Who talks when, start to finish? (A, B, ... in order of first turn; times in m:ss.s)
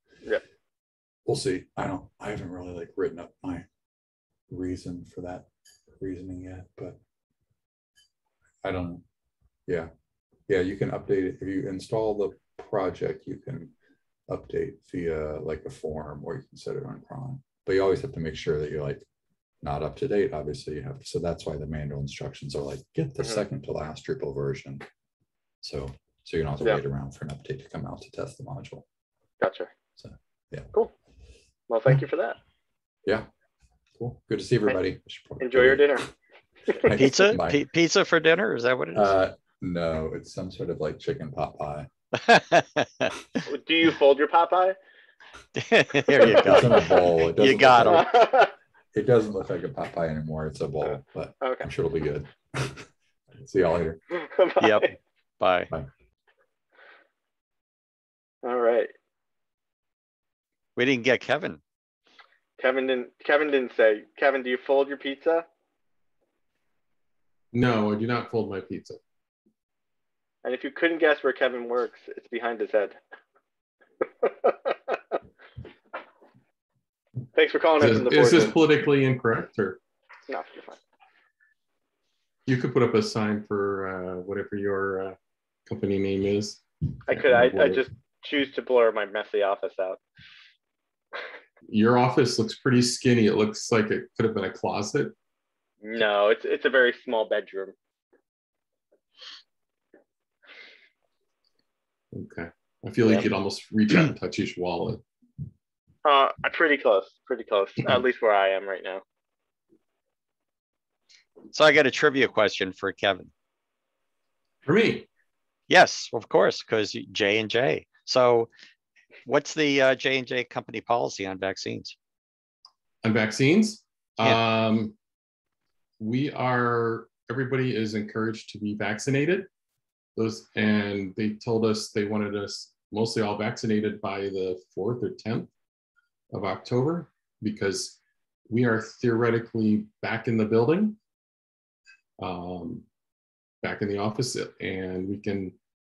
0:01.2-0:03.7 A
0:04.5-0:05.4 A
0:06.0-0:07.0 A
0:08.6-0:09.0 A
0:10.5-0:13.7 A
0:14.3-0:19.0 A
0:19.6-0:24.8 A
0:25.6-0:28.8 A
0:29.4-0:29.7 B
0:30.0-0:30.7 A
0:31.7-0:32.4 B
0:34.0-0:36.1 A
0:35.4-0:36.1 B
0:36.8-0:37.6 A
0:36.9-0:39.1 C
0:38.9-0:41.9 A
0:42.1-0:43.1 C
0:43.5-0:44.8 B
0:45.6-0:48.1 C
0:46.2-0:46.8 B
0:46.2-0:48.1 A
0:47.8-0:48.5 B
0:48.9-0:54.0 A
0:51.4-0:51.7 B
0:54.1-0:54.9 B
0:54.6-0:55.7 C
0:58.4-0:58.9 B
1:00.8-1:01.6 C
1:02.6-1:05.4 B
1:07.5-1:09.0 D
1:10.4-1:13.0 B
1:14.2-1:14.9 B
1:17.3-1:18.6 B
1:17.8-1:19.8 D
1:20.3-1:20.8 B
1:22.4-1:27.8 D
1:27.1-1:30.0 B
1:31.7-1:35.1 D
1:35.8-1:37.7 B
1:42.1-1:45.0 D
1:43.0-1:43.3 C
1:46.0-1:49.0 B
1:51.5-1:53.3 C
1:54.6-1:55.1 D
1:55.7-1:58.5 C
1:59.2-2:02.0 C
2:03.0-2:05.0 D
2:06.0-2:09.5 D
2:10.2-2:15.5 D
2:16.3-2:21.0 D
2:22.2-2:22.8 D
2:23.6-2:25.5 D